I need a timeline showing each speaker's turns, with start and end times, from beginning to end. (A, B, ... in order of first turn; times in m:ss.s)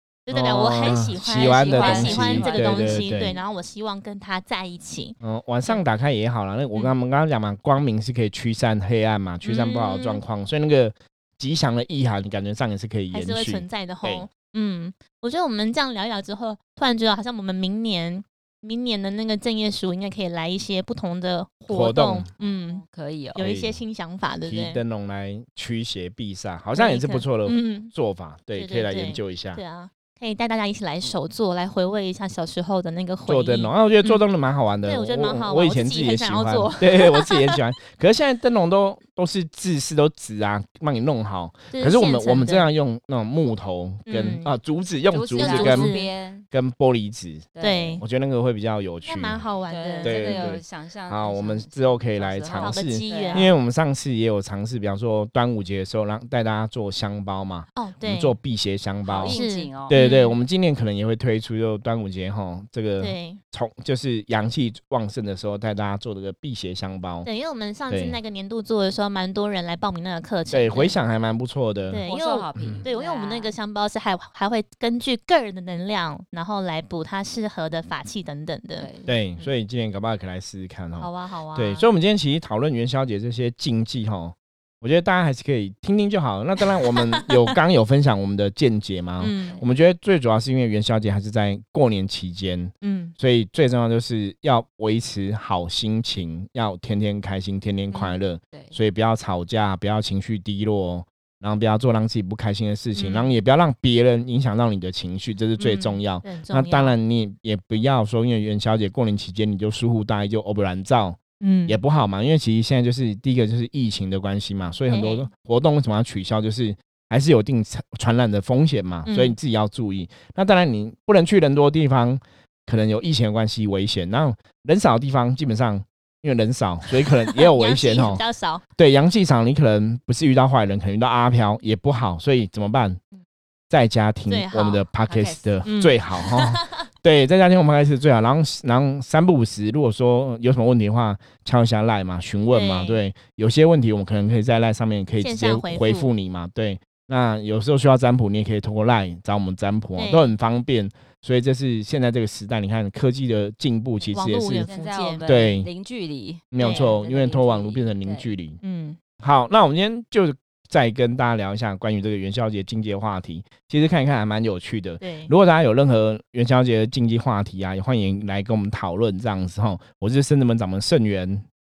0:00.3-0:05.8 A
0:00.3-0:03.4 B
0:01.4-0:03.1 C
0:05.2-0:14.3 B
0:09.4-0:10.2 A
0:13.1-0:22.8 A
0:21.7-0:22.3 B
0:22.4-0:23.4 C
0:23.4-0:23.8 B
0:23.4-0:24.8 A
0:24.5-0:29.6 B
0:26.8-0:27.9 A
0:28.5-0:34.2 A
0:33.2-0:46.0 B
0:34.9-0:37.6 A
0:41.7-0:42.7 A
0:44.1-0:44.5 A
0:45.1-0:46.5 C
0:45.4-0:46.1 A
0:46.5-0:49.4 B
0:47.6-0:48.0 C
0:47.6-0:48.0 A
0:49.0-0:50.6 A
0:49.7-0:53.6 C
0:50.0-1:07.3 B
0:52.5-0:53.5 A
0:57.8-0:58.3 A
0:59.0-1:00.0 C
0:59.2-1:00.4 A
1:03.0-1:03.4 A
1:07.2-1:11.0 A
1:07.9-1:08.2 B
1:10.5-1:12.0 B
1:11.9-1:18.9 A
1:12.1-1:13.6 C
1:12.6-1:12.8 B
1:18.8-1:19.2 C
1:19.1-2:08.2 B
1:21.0-1:21.9 A
1:26.6-1:27.5 A
1:29.2-1:29.6 A
1:29.4-1:29.7 C
1:32.8-1:33.1 A
1:37.9-1:38.2 A
1:38.5-1:38.8 C
1:43.0-1:43.3 A
1:45.6-1:46.9 A
1:51.4-1:51.8 A
1:54.9-1:55.3 A
1:59.1-1:59.4 A
2:07.0-2:08.6 A
2:08.8-2:13.0 B
2:13.7-2:34.7 B
2:14.3-2:14.8 A
2:15.1-2:15.6 C
2:15.6-2:16.8 A
2:22.5-2:23.0 A
2:25.2-2:26.1 A
2:30.0-2:30.4 A
2:34.1-2:35.2 A
2:34.6-2:38.3 C
2:35.2-2:35.7 B
2:36.5-2:38.6 B
2:36.6-2:36.9 A
2:38.6-2:39.0 A
2:39.2-2:51.5 B
2:45.0-2:45.3 A